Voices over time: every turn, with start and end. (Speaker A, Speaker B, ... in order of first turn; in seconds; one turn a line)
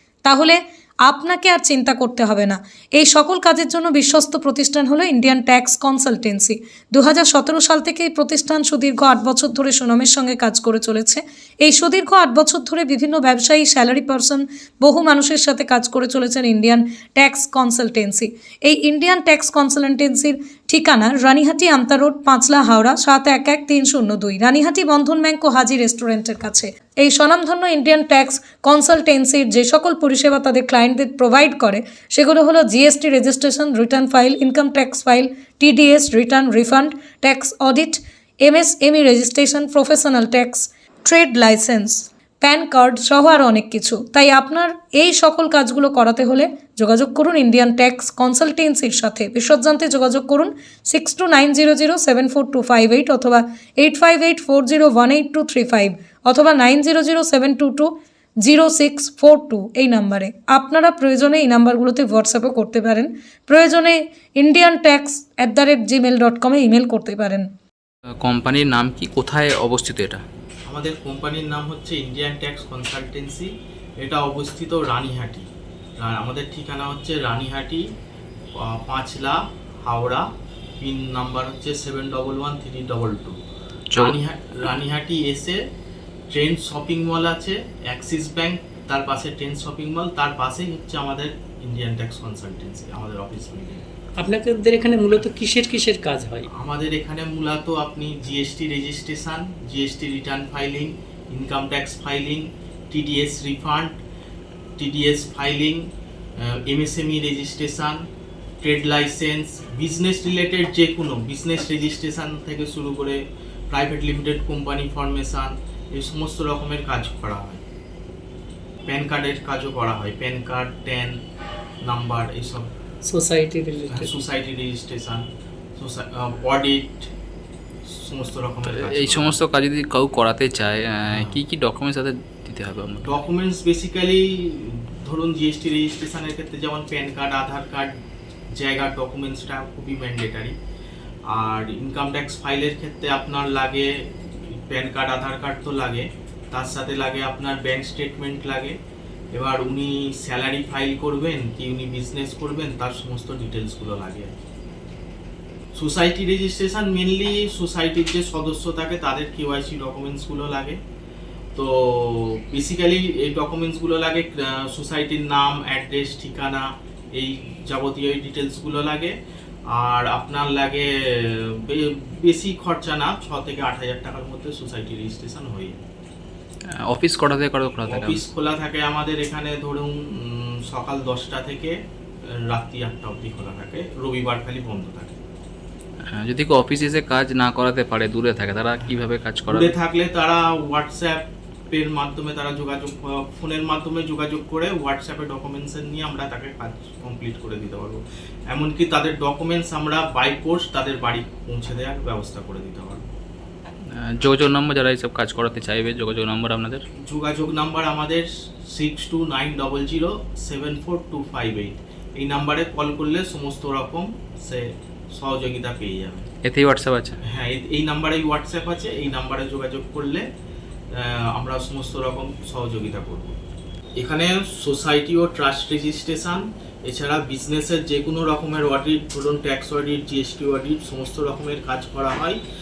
Speaker A: 0.2-67.5
Speaker B: 68.2-70.2
Speaker C: 70.7-73.5
Speaker C: 74.0-75.5
Speaker C: 76.0-77.8
Speaker C: 78.6-80.2
Speaker C: 80.8-83.4
Speaker C: 84.0-85.6
Speaker C: 86.3-93.8
Speaker D: 94.2-96.5
Speaker C: 96.5-104.0
Speaker C: 104.8-105.9
Speaker C: 106.4-108.0
Speaker C: 108.6-113.2
Speaker C: 113.7-117.6
Speaker C: 118.9-121.2
Speaker C: 121.8-122.7
Speaker D: 123.1-124.1
Speaker C: 123.9-125.2
Speaker C: 125.8-127.1
Speaker C: 127.9-129.4
Speaker B: 128.7-133.2
Speaker C: 131.1-131.4
Speaker C: 133.0-137.9
Speaker C: 138.6-140.6
Speaker C: 141.3-148.8
Speaker C: 149.3-154.3
Speaker C: 155.8-160.8
Speaker C: 161.6-169.1
Speaker C: 169.7-175.8
Speaker B: 176.9-178.2
Speaker C: 177.9-181.8
Speaker C: 182.5-185.2
Speaker B: 186.1-189.7
Speaker C: 189.5-203.0
Speaker B: 203.9-206.8
Speaker C: 207.1-216.3
Speaker B: 216.4-217.2
Speaker C: 217.3-220.2
Speaker C: 220.9-223.4
Speaker C: 224.0-232.4